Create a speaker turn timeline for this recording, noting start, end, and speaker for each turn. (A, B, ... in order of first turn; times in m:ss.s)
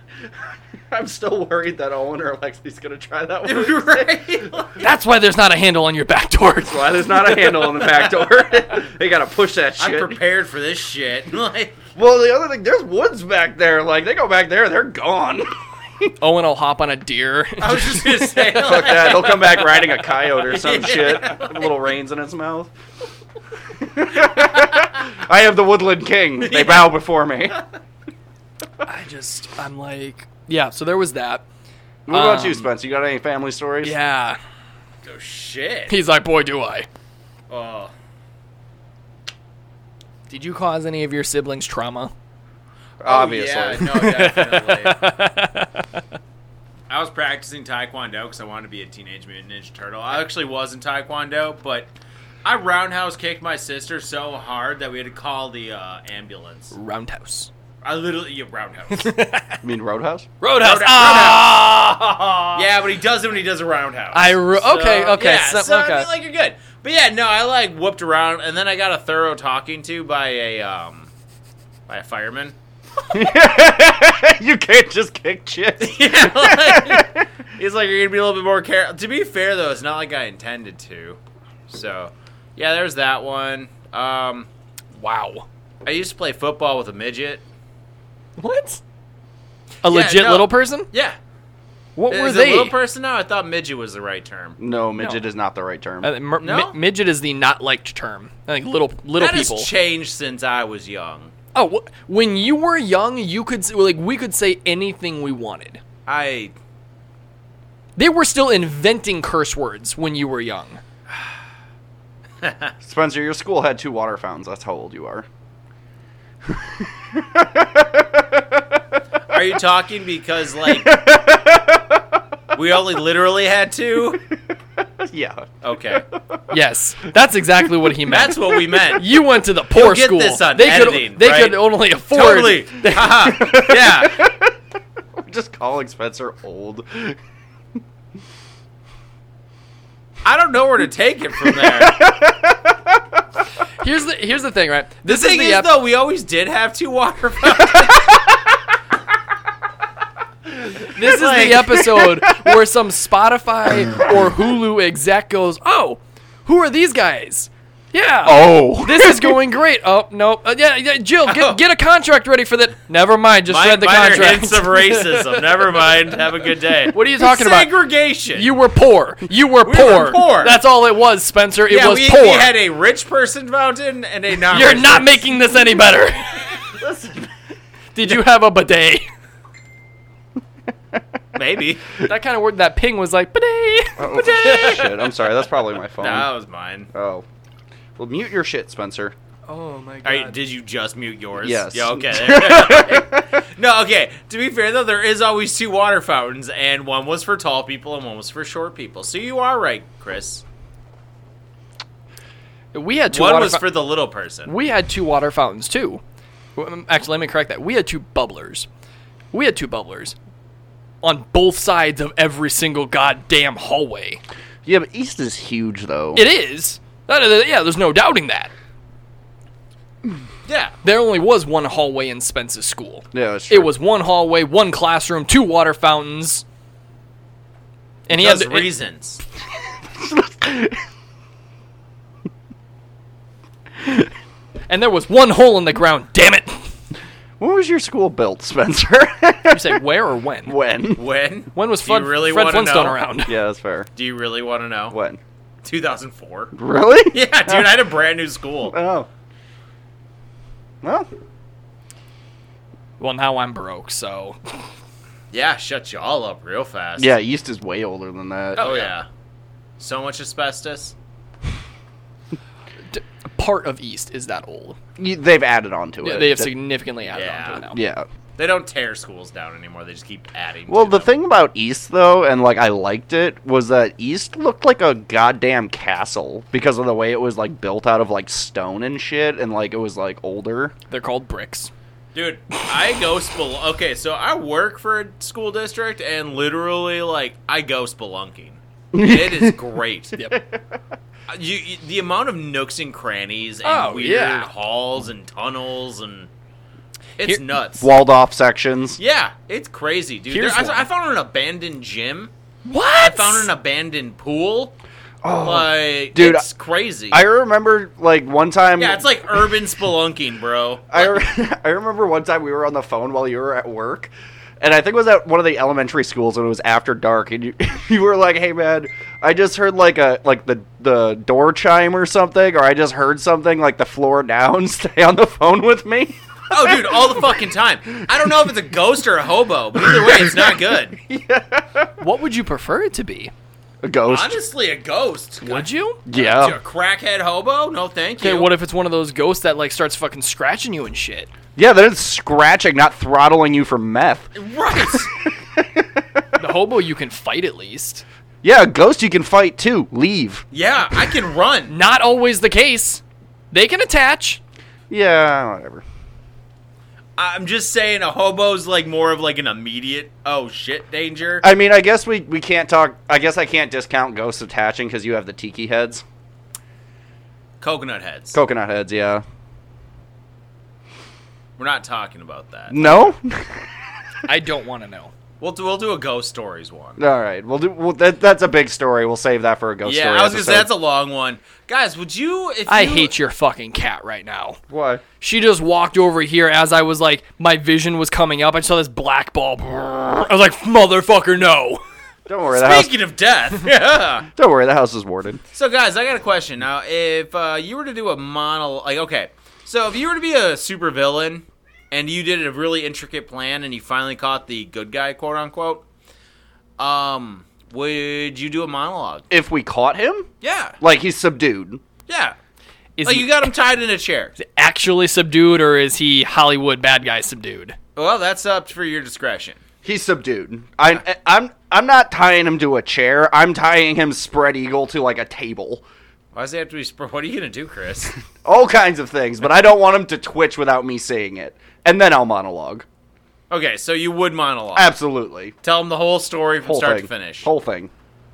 0:00.9-0:04.6 A
0:03.4-0:04.9 B
0:04.8-0:07.8 C
0:06.6-0:10.2 A
0:09.8-0:11.8 B
0:12.0-0:16.1 A
0:16.2-0:18.6 C
0:17.6-0:21.8 B
0:18.5-0:22.7 A
0:23.8-0:27.6 A
0:24.3-0:24.9 B
0:26.4-0:26.9 B
0:28.8-0:31.4 C
0:32.1-0:34.0 A
0:32.1-0:32.7 C
0:33.8-0:34.4 C
0:35.0-0:35.9 B
0:35.9-0:36.9 C
0:37.5-0:37.9 B
0:40.3-0:42.1 C
0:43.0-0:44.1 A
0:43.0-0:45.0 B
0:43.8-0:46.0 C
0:46.9-0:51.9 B
0:52.4-0:56.7 B
0:56.7-0:57.5 C
0:57.8-0:59.1 B
0:58.9-0:59.6 C
0:59.6-1:00.3 A
1:00.4-1:02.6 C
1:00.6-1:01.5 B
1:02.5-1:11.1 B
1:04.1-1:06.1 C
1:11.9-1:12.5 B
1:13.1-1:17.2 A
1:15.8-1:21.2 B
1:21.7-1:24.5 B
1:25.0-1:25.4 C
1:25.8-1:27.4 B
1:28.4-1:28.8 C
1:29.8-1:30.9 C
1:29.8-1:31.2 B
1:32.0-1:32.7 C
1:32.1-1:34.6 B
1:34.6-1:36.1 A
1:35.0-1:35.2 C
1:36.0-1:39.7 C
1:36.4-1:36.8 B
1:39.2-1:41.3 B
1:41.5-1:45.8 C
1:46.1-1:46.5 B
1:48.0-1:50.8 C
1:52.4-1:52.7 B
1:52.8-1:55.3 A
1:56.4-1:58.6 A
1:59.3-2:01.0 B
2:00.6-2:02.0 A
2:02.5-2:04.2 B
2:05.0-2:05.5 A
2:05.6-2:06.0 B
2:06.5-2:13.3 C
2:08.0-2:09.2 B
2:09.7-2:14.3 B
2:13.2-2:14.5 A
2:15.2-2:17.2 A
2:20.2-2:22.0 B
2:21.5-2:23.0 A
2:23.8-2:25.7 C
2:25.0-2:28.2 B
2:30.9-2:45.4 C
2:31.0-2:31.9 B
2:31.3-2:32.6 A
2:38.2-2:39.4 A
2:41.2-2:41.6 B
2:43.5-2:48.5 B
2:46.9-2:47.7 C
2:48.3-2:52.5 C
2:49.6-2:50.6 B
2:51.7-2:55.2 B
2:54.5-2:56.6 C
2:56.6-2:57.3 A
2:57.9-2:59.0 C
3:01.3-3:01.8 B
3:02.0-3:05.0 C
3:04.0-3:06.3 A
3:04.2-3:05.0 B
3:05.9-3:06.9 B
3:06.9-3:07.2 A
3:08.0-3:09.1 A
3:09.5-3:10.4 C
3:10.0-3:20.4 B
3:11.4-3:13.4 A
3:22.7-3:23.6 C
3:23.1-3:24.5 B
3:24.4-3:26.0 C
3:26.6-3:28.7 C
3:29.3-3:30.2 C
3:31.0-3:34.2 C
3:34.6-3:36.2 A
3:36.1-3:38.5 C
3:40.4-3:40.7 B
3:40.8-3:46.4 C
3:43.1-3:43.7 A
3:48.1-3:48.7 C
3:48.1-3:49.2 B
3:49.9-3:50.8 A
3:54.7-3:56.7 C
3:57.4-3:59.8 A
3:59.5-4:00.6 C
4:00.4-4:01.0 A
4:01.0-4:03.0 B
4:01.5-4:03.4 C
4:03.2-4:03.9 A
4:04.0-4:05.0 B
4:04.9-4:05.2 A
4:05.6-4:06.5 B
4:06.5-4:07.8 A
4:07.1-4:08.8 B
4:08.7-4:09.1 A
4:10.8-4:11.1 A
4:13.0-4:14.6 C
4:15.3-4:17.1 B
4:17.0-4:18.7 A
4:18.6-4:18.9 C
4:18.6-4:19.1 B
4:19.8-4:20.9 B
4:22.9-4:24.8 C
4:25.0-4:26.5 A
4:26.0-4:27.8 C
4:27.1-4:27.7 B
4:27.7-4:28.0 A
4:28.4-4:31.1 B
4:30.7-4:40.7 A
4:40.9-4:41.7 C
4:42.1-4:50.2 B
4:48.9-4:49.6 A
4:50.3-4:50.6 A
4:51.3-4:56.3 B
4:53.6-4:54.5 C
4:57.2-4:57.9 B
4:57.8-4:59.0 A
4:59.0-5:02.3 B
5:00.3-5:00.9 C
5:02.6-5:03.5 C
5:03.0-5:04.7 B
5:05.2-5:06.5 A
5:05.3-5:07.2 B
5:07.1-5:09.2 A
5:08.8-5:11.2 B
5:10.9-5:27.4 A
5:26.5-5:31.0 B
5:28.1-5:28.5 A
5:29.8-5:32.0 A
5:32.0-5:33.3 C
5:33.8-5:34.4 A
5:34.1-5:38.5 B
5:35.4-5:36.0 C
5:36.1-5:36.6 A
5:38.2-5:41.3 C
5:41.6-5:46.2 A
5:44.3-5:45.1 B
5:46.4-5:48.0 C
5:48.4-5:50.4 A
5:50.5-5:51.7 B
5:51.7-5:54.4 C
5:54.9-5:55.8 A
5:57.2-6:01.4 B
6:01.4-6:06.0 A
6:07.6-6:08.4 B
6:08.3-6:09.2 A
6:11.6-6:13.1 B
6:12.7-6:13.7 A
6:14.3-6:15.1 C
6:15.4-6:17.0 B
6:17.0-6:20.7 A
6:19.8-6:23.1 B
6:22.7-6:24.6 C
6:24.7-6:25.0 A
6:25.2-6:31.8 C
6:32.3-6:32.9 A
6:32.5-6:34.3 B
6:34.3-6:35.4 A
6:35.5-6:45.8 B
6:46.8-6:49.2 B
6:49.3-6:50.3 A
6:50.4-6:50.8 B
6:50.8-6:51.8 A
6:52.1-6:52.3 B
6:53.0-6:53.5 C
6:53.0-6:54.3 B
6:54.4-6:57.8 C
6:58.0-6:59.6 B
6:59.8-7:05.8 A
7:06.3-7:08.1 B
7:08.4-7:12.8 A
7:13.5-7:14.9 B
7:14.7-7:15.5 A
7:15.6-7:17.5 B
7:16.6-7:17.9 A